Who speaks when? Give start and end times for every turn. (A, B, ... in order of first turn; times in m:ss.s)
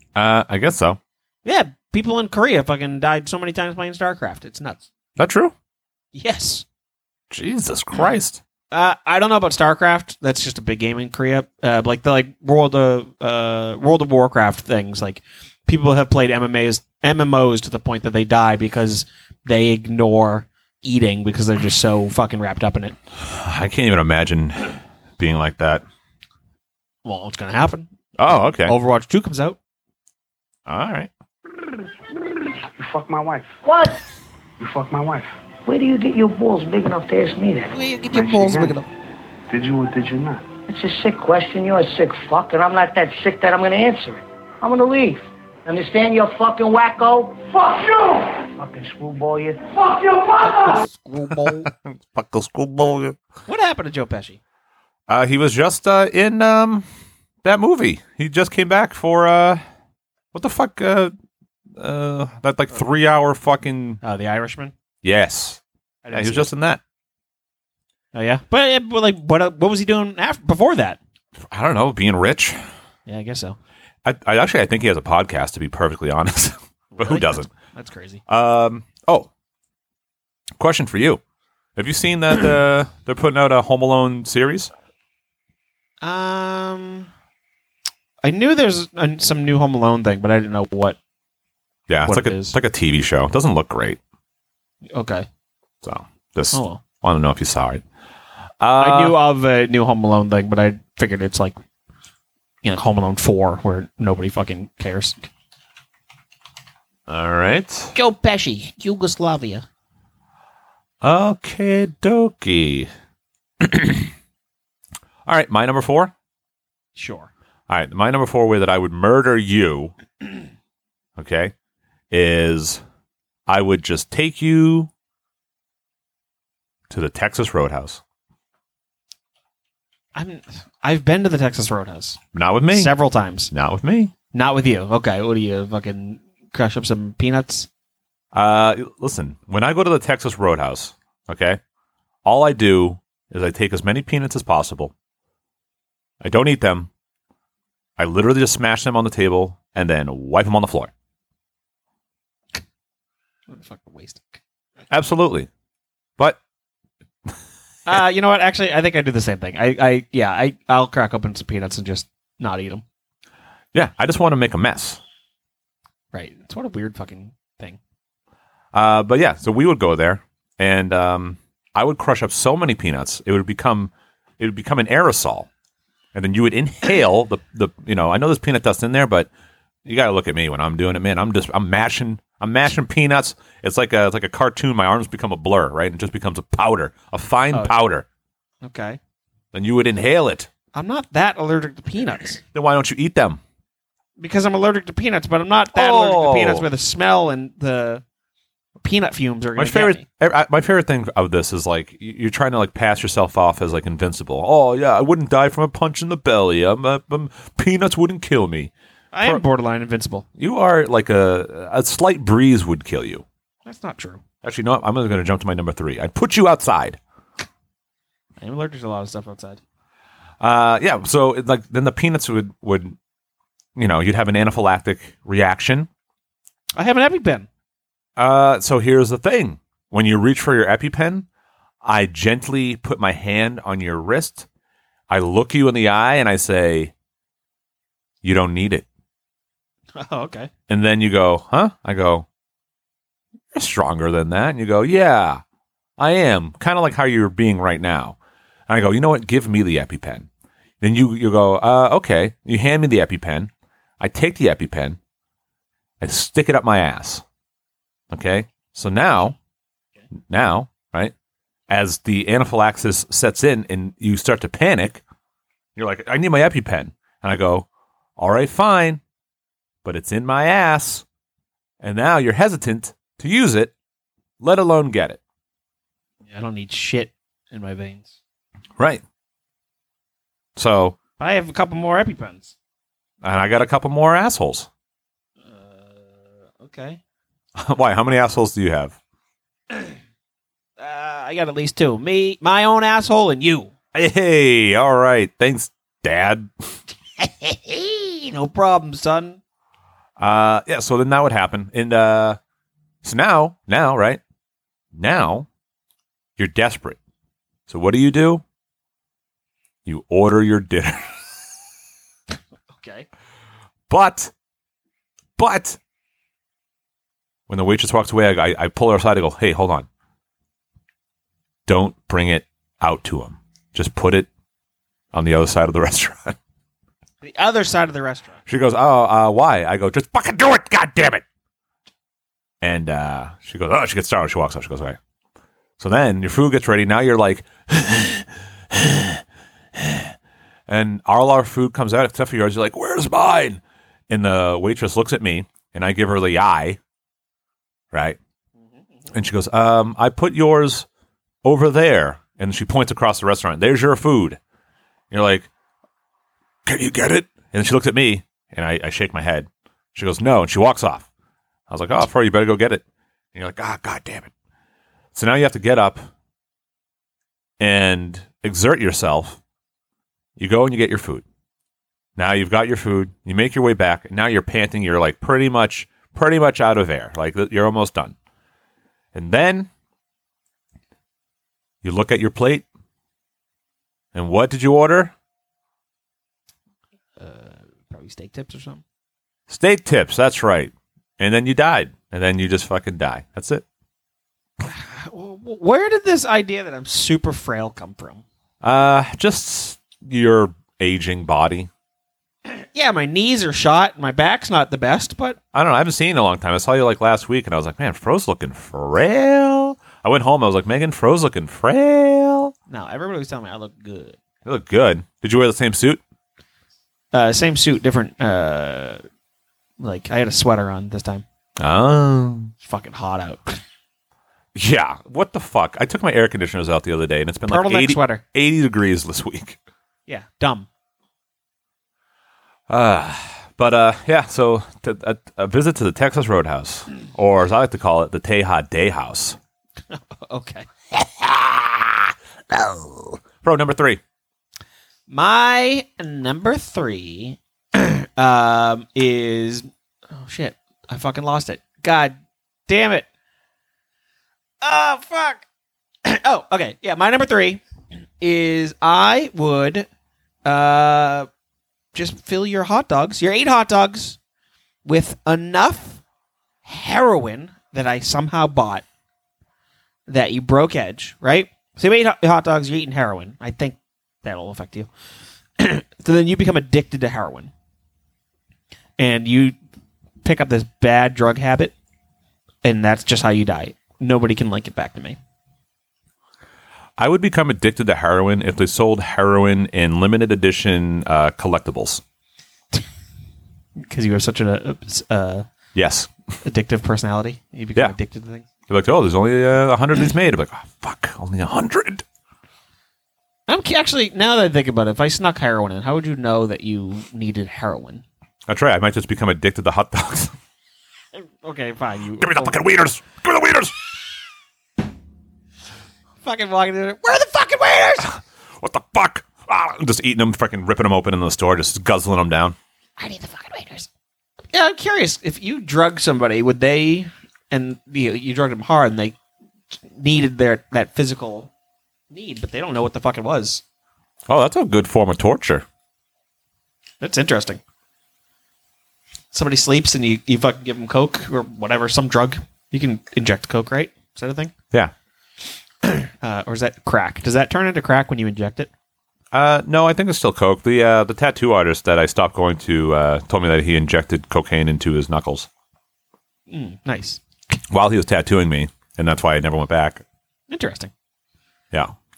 0:00.2-0:01.0 A
0:01.4-0:04.9 B
0:05.2-0:05.5 A
0:06.1-0:06.6 B
0:07.3-0:08.4 A
0:08.7-0:23.0 B
0:23.2-0:25.8 A
0:27.0-0:27.9 B
0:28.2-0:28.8 A
0:28.6-0:29.6 B
0:30.7-0:31.1 A
0:32.8-0:33.6 C
0:33.6-0:34.0 D
0:34.6-0:35.3 C
0:35.6-0:37.8 D
0:37.7-0:38.9 B
0:38.1-0:38.8 C
0:39.5-0:40.5 C
0:40.7-0:50.8 D
0:50.4-0:51.7 B
0:51.7-0:53.2 A
0:53.5-0:54.4 B
0:55.1-0:56.8 A
0:57.4-0:59.6 A
1:00.3-1:01.1 A
1:01.8-1:04.0 A
1:04.0-1:04.7 B
1:05.0-1:05.6 A
1:06.0-1:06.5 B
1:06.1-1:06.8 A
1:08.1-1:11.0 B
1:11.4-1:12.6 A
1:13.1-1:13.6 B
1:14.0-1:17.5 A
1:16.9-1:18.2 B
1:18.3-1:19.3 A
1:20.6-1:21.2 A
1:21.8-1:24.7 A
1:26.0-1:27.1 B
1:28.2-1:31.0 B
1:31.9-1:34.0 A
1:32.1-1:32.6 B
1:34.9-1:35.3 B
1:35.8-1:37.8 A
1:36.5-1:36.8 B
1:38.6-1:39.2 A
1:38.8-1:41.6 B
1:42.6-1:45.3 B
1:47.1-1:48.0 A
1:48.0-1:49.7 B
1:51.0-1:52.9 A
1:53.6-1:54.1 A
1:55.3-1:56.1 A
1:57.0-1:57.3 B
1:57.7-2:00.0 A
2:01.2-2:01.5 A
2:02.1-2:02.8 A
2:03.5-2:04.9 A
2:06.9-2:08.0 A
2:10.2-2:12.2 B
2:12.3-2:12.9 A
2:12.7-2:13.5 B
2:13.5-2:14.1 A
2:14.3-2:17.7 B
2:18.3-2:21.6 A
2:22.2-2:24.9 A
2:26.2-2:26.9 A
2:28.0-2:30.9 A
2:33.5-2:34.4 B
2:34.9-2:35.5 A
2:37.9-2:42.8 B
2:43.7-2:45.0 A
2:46.1-2:47.8 B
2:48.7-2:55.5 A
2:56.1-2:59.3 A
2:59.8-3:08.1 A
3:08.6-3:09.0 B
3:09.5-3:10.5 A
3:10.7-3:12.4 B
3:12.5-3:13.4 A
3:14.2-3:18.0 B
3:15.7-3:16.7 A
3:18.8-3:20.0 B
3:19.6-3:28.7 A
3:29.1-3:30.2 B
3:30.4-3:33.2 A
3:33.7-3:34.2 B
3:34.4-3:37.0 A
3:38.4-3:39.6 B
3:40.4-3:43.0 A
3:43.8-3:45.9 A
3:46.8-3:47.5 B
3:48.2-3:51.3 A
3:51.8-3:54.5 A
3:55.1-3:56.9 A
3:58.2-3:58.9 A
4:00.0-4:00.5 B
4:00.7-4:02.3 A
4:03.5-4:05.4 A
4:06.0-4:08.2 A
4:08.7-4:10.3 A
4:10.8-4:15.0 A
4:16.0-4:17.2 A
4:18.1-4:19.4 A
4:20.2-4:21.1 A
4:21.7-4:25.0 A
4:25.8-4:29.0 A
4:29.8-4:31.0 A
4:31.8-4:33.7 A
4:34.4-4:35.2 A
4:36.3-4:38.2 B
4:38.8-4:39.0 A
4:40.6-4:41.0 A
4:41.2-4:42.5 B
4:43.2-4:44.7 A
4:45.5-4:47.0 B
4:47.6-4:49.0 A
4:50.8-4:53.7 B
4:53.9-4:56.5 A
4:57.2-4:59.4 B
5:00.2-5:02.4 A
5:03.0-5:04.2 A
5:04.9-5:05.5 A
5:06.4-5:07.0 A
5:07.7-5:08.4 A
5:09.9-5:11.2 A
5:12.8-5:13.1 B
5:13.9-5:14.3 A
5:15.4-5:15.8 A
5:17.5-5:19.9 A
5:21.7-5:24.3 A
5:25.1-5:26.4 A
5:27.2-5:28.4 B
5:28.5-5:31.2 A
5:32.6-5:35.0 A
5:35.8-5:39.2 A
5:39.7-5:40.1 A
5:40.7-5:46.8 A
5:47.9-5:48.2 A
5:49.1-5:50.9 A
5:51.4-5:54.4 A
5:55.1-5:55.5 A
5:56.6-6:01.1 A
6:01.7-6:04.3 A
6:05.1-6:06.1 A
6:07.6-6:09.4 A
6:10.4-6:11.2 A
6:12.2-6:18.2 A
6:19.1-6:19.7 A
6:21.8-6:22.7 A
6:24.1-6:25.1 A
6:27.2-6:28.8 B
6:29.5-6:33.6 A
6:34.6-6:38.2 B
6:38.6-6:41.7 A
6:42.5-6:45.4 B
6:45.5-6:52.5 A
6:52.7-6:54.2 B
6:54.4-6:56.0 A
6:57.1-6:59.0 B
6:59.8-7:01.2 B
7:01.6-7:02.5 A
7:02.6-7:03.6 B
7:04.6-7:09.6 A
7:07.5-7:08.2 B
7:10.1-7:10.7 B
7:12.7-7:19.4 A
7:19.9-7:20.7 B
7:20.9-7:24.0 A
7:25.1-7:32.2 B
7:32.7-7:33.1 B
7:34.6-7:35.4 B
7:36.0-7:37.6 B
7:38.2-7:39.9 B
7:40.4-7:41.3 B
7:41.9-7:44.2 B
7:44.8-7:46.0 B
7:46.6-7:48.8 B
7:50.1-7:54.9 B
7:55.6-7:57.5 B
7:59.0-7:59.6 B
8:00.2-8:01.7 B
8:02.6-8:05.2 B
8:07.0-8:12.0 A
8:13.9-8:15.5 B
8:15.7-8:16.1 A
8:16.4-8:18.5 B
8:18.7-8:22.0 A
8:23.5-8:28.0 B
8:28.5-8:30.4 A
8:31.1-8:32.6 B
8:32.2-8:33.8 A
8:36.2-8:38.2 B
8:38.1-8:42.6 A
8:43.0-8:43.9 B
8:44.5-8:49.2 B
8:49.7-8:51.5 B
8:52.1-8:53.6 B
8:54.3-8:55.7 A
8:57.0-8:57.6 B
8:59.3-9:04.5 B
9:05.8-9:08.7 B
9:09.3-9:15.5 A
9:16.5-9:17.2 B
9:17.7-9:20.0 A
9:20.5-9:20.9 B